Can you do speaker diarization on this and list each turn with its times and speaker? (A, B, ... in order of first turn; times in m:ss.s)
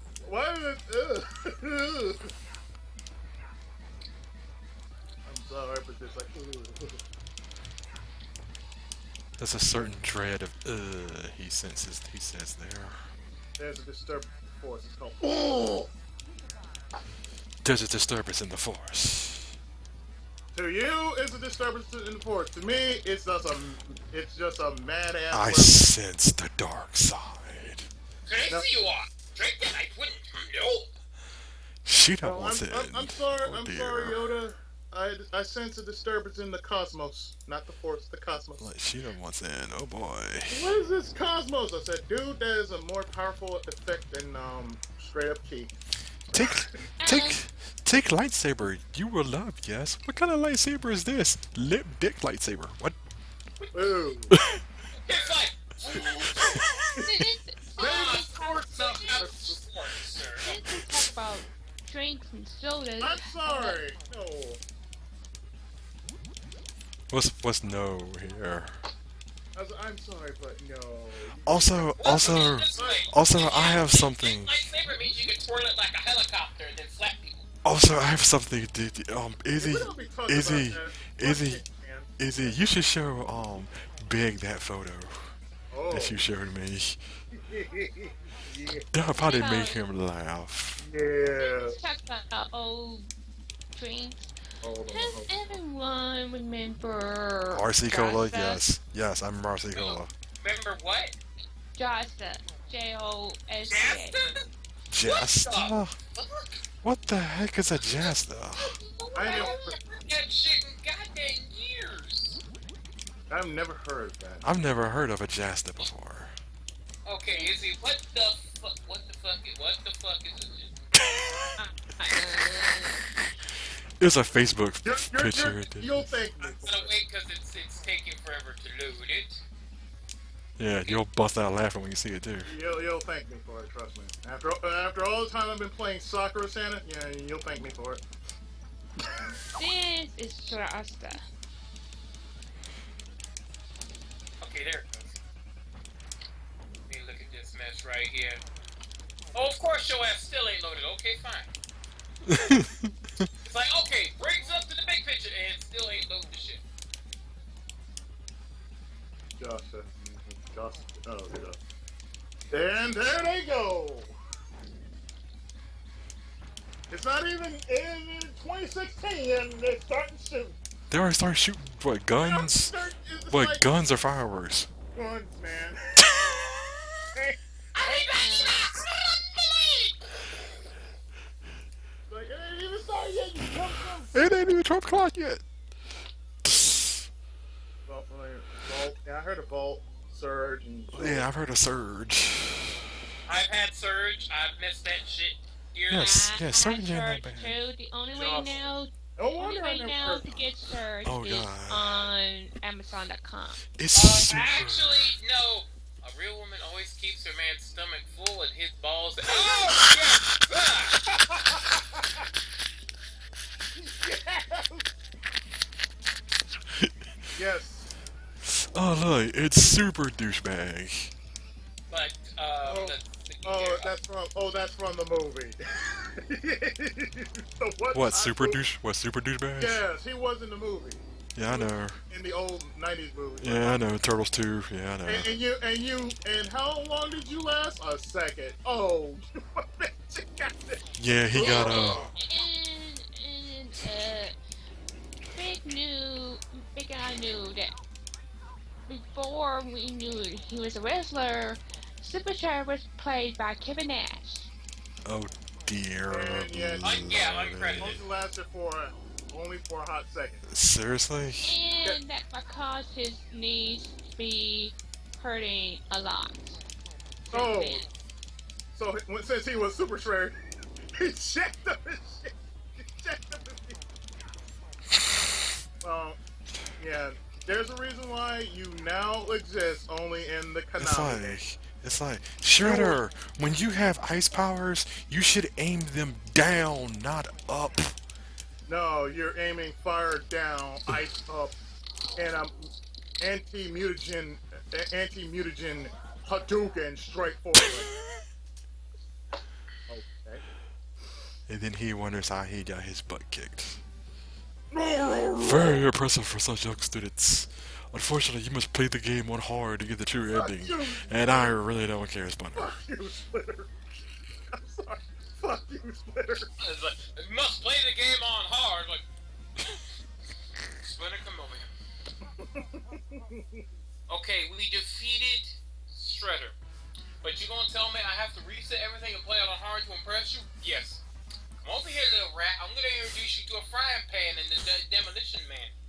0:00.2-0:02.3 A
0:05.2-0:07.0 A
0:09.4-0:13.1 B
0:13.6-0:15.9 A
0:17.6-0:19.5 B
0:20.5-0:25.8 A
0:25.3-0:27.9 B
0:28.2-0:30.9 C
0:31.8-0:34.3 B
0:32.2-0:38.7 A
0:38.6-0:40.7 B
0:40.5-0:45.7 A
0:46.3-0:53.0 B
0:46.3-0:46.8 A
0:47.0-0:47.4 D
0:53.6-0:53.9 C
0:53.7-0:54.3 A
0:54.3-0:54.6 B
0:55.0-0:56.6 C
0:56.0-0:57.0 B
0:57.0-0:59.2 D
0:57.8-0:59.6 A
0:57.8-1:00.5 C
1:00.4-1:03.8 D
1:03.0-1:04.6 A
1:07.1-1:08.8 B
1:09.5-1:12.0 A
1:11.4-1:14.7 B
1:12.0-1:17.4 C
1:12.6-1:13.2 A
1:17.6-1:21.6 B
1:19.6-1:22.6 A
1:22.2-1:25.4 B
1:25.7-1:26.2 A
1:25.9-1:27.0 B
1:27.3-1:28.9 A
1:28.9-1:30.8 B
1:29.1-1:29.8 D
1:30.8-1:31.8 A
1:31.3-1:33.1 D
1:33.7-1:34.3 D
1:34.6-1:35.3 A
1:34.8-1:38.6 D
1:37.5-1:40.1 B
1:39.7-1:41.1 C
1:41.8-1:44.2 D
1:43.7-1:44.5 C
1:44.9-1:46.0 B
1:45.0-1:46.6 C
1:46.8-1:48.8 B
1:47.9-1:52.4 C
1:49.1-1:49.8 A
1:53.3-1:54.5 A
1:54.4-1:56.3 B
1:57.0-2:00.8 C
2:00.9-2:01.6 B
2:01.6-2:03.0 D
2:02.1-2:03.3 B
2:04.0-2:06.2 B
2:04.8-2:06.9 A
2:06.6-2:09.4 C
2:10.6-2:12.5 B
2:12.4-2:18.0 A
2:19.0-2:19.4 A
2:19.5-2:21.2 D
2:24.4-2:25.2 C
2:26.9-2:28.4 C
2:29.3-2:31.5 C
2:32.2-2:33.3 B
2:33.4-2:36.6 C
2:39.4-2:41.6 A
2:42.5-2:44.1 A
2:46.9-2:50.6 A
2:50.9-2:52.8 B
2:52.2-2:53.7 A
2:53.3-2:54.7 B
2:54.9-2:56.0 A
2:56.0-2:56.4 B
2:57.8-3:00.0 C
2:57.8-2:58.6 D
3:02.1-3:04.4 A
3:04.1-3:05.4 B
3:06.4-3:07.1 B
3:07.9-3:11.3 A
3:10.9-3:12.8 B
3:13.3-3:16.1 C
3:15.9-3:17.6 B
3:16.0-3:23.6 D
3:18.1-3:20.5 A
3:21.0-3:22.1 B
3:23.8-3:25.1 B
3:23.9-3:31.0 C
3:31.1-3:32.2 A
3:33.7-3:34.9 A
3:36.8-3:37.1 B
3:37.3-3:37.9 A
3:38.4-3:41.1 B
3:41.9-3:43.9 C
3:42.6-3:48.6 A
3:47.9-3:49.8 B
3:49.6-3:53.8 A
3:51.3-3:52.0 B
3:53.4-3:55.3 B
3:55.0-4:00.8 A
4:01.0-4:02.1 B
4:01.3-4:02.1 A
4:01.4-4:04.3 D
4:05.3-4:07.7 D
4:08.9-4:14.5 D
4:15.0-4:18.0 B
4:16.1-4:17.0 A
4:16.8-4:18.0 C
4:17.8-4:20.4 A
4:20.5-4:21.5 B
4:21.4-4:26.6 D
4:27.2-4:27.9 D
4:27.3-4:27.8 A
4:28.7-4:30.4 A
4:31.0-4:33.8 A
4:35.8-4:36.2 A
4:36.8-4:41.4 A
4:40.8-4:48.0 B
4:42.6-4:43.0 A
4:48.7-4:51.5 A
4:52.2-4:57.9 A
4:59.9-5:00.4 A
5:01.5-5:03.8 B
5:04.7-5:05.7 A
5:05.4-5:12.7 B
5:10.3-5:11.5 A
5:12.5-5:13.7 A
5:14.5-5:16.5 A
5:16.6-5:19.0 C
5:20.8-5:21.7 C
5:22.4-5:23.6 A
5:24.1-5:26.5 C
5:27.2-5:31.0 C
5:31.6-5:35.7 C